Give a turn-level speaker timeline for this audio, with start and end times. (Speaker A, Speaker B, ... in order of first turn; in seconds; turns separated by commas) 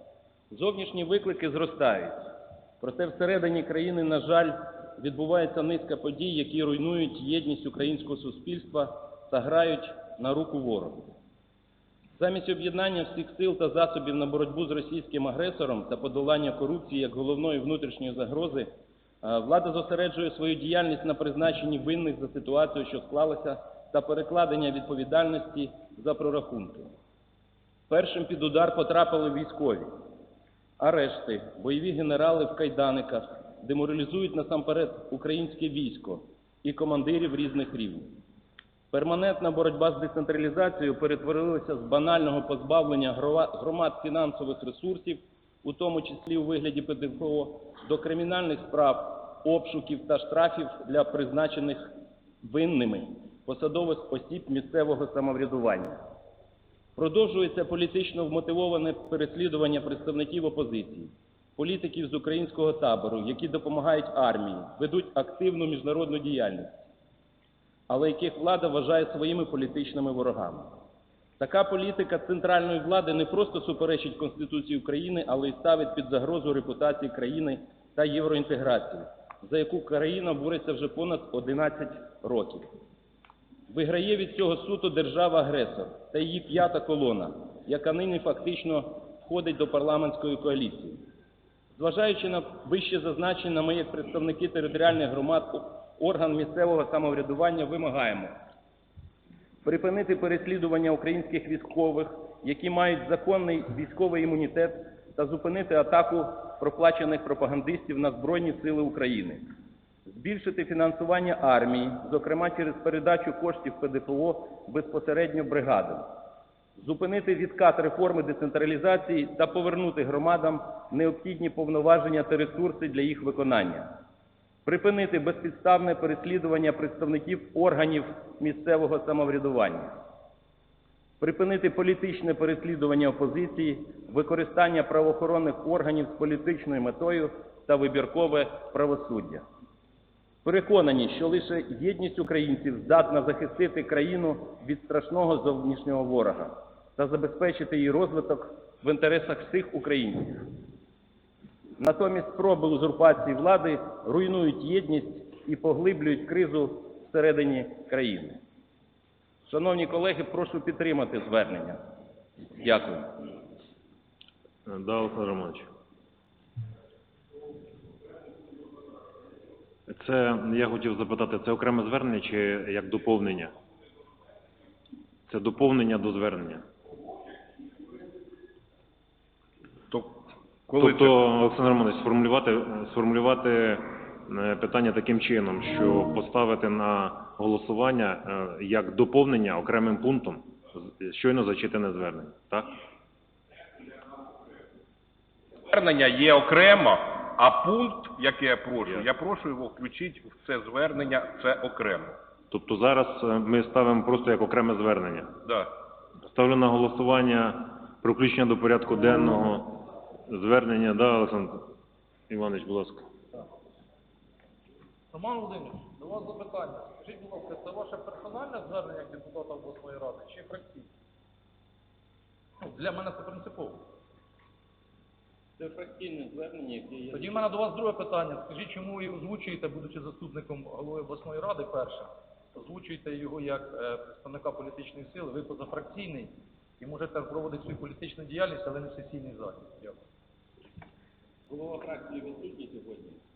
Speaker A: 0.5-11.1, Speaker A: 12.2-18.7, Speaker A: 19.2-26.9, Speaker A: 27.9-29.9, Speaker A: 30.8-38.1, Speaker A: 38.9-56.0, Speaker A: 57.0-66.8, Speaker A: 67.9-70.8, Speaker A: 71.4-82.7, Speaker A: 83.7-91.0, Speaker A: 91.8-98.3, Speaker A: 99.6-109.5, Speaker A: 110.1-116.1, Speaker A: 116.8-124.0, Speaker A: 124.7-130.0, Speaker A: 131.2-139.4, Speaker A: 140.4-150.6, Speaker A: 151.8-158.4, Speaker A: 159.5-161.8, Speaker A: 162.6-163.3, Speaker B: 164.7-165.7, Speaker B: 169.9-173.6, Speaker B: 175.3-176.7, Speaker C: 179.9-181.1, Speaker B: 180.8-192.7, Speaker C: 195.7-202.2, Speaker B: 202.5-205.4, Speaker C: 205.4-205.7, Speaker B: 206.3-211.7, Speaker B: 212.3-213.0, Speaker D: 215.1-220.9, Speaker D: 222.6-223.9, Speaker A: 225.6-227.4, Speaker D: 227.1-240.0, Speaker A: 241.5-243.2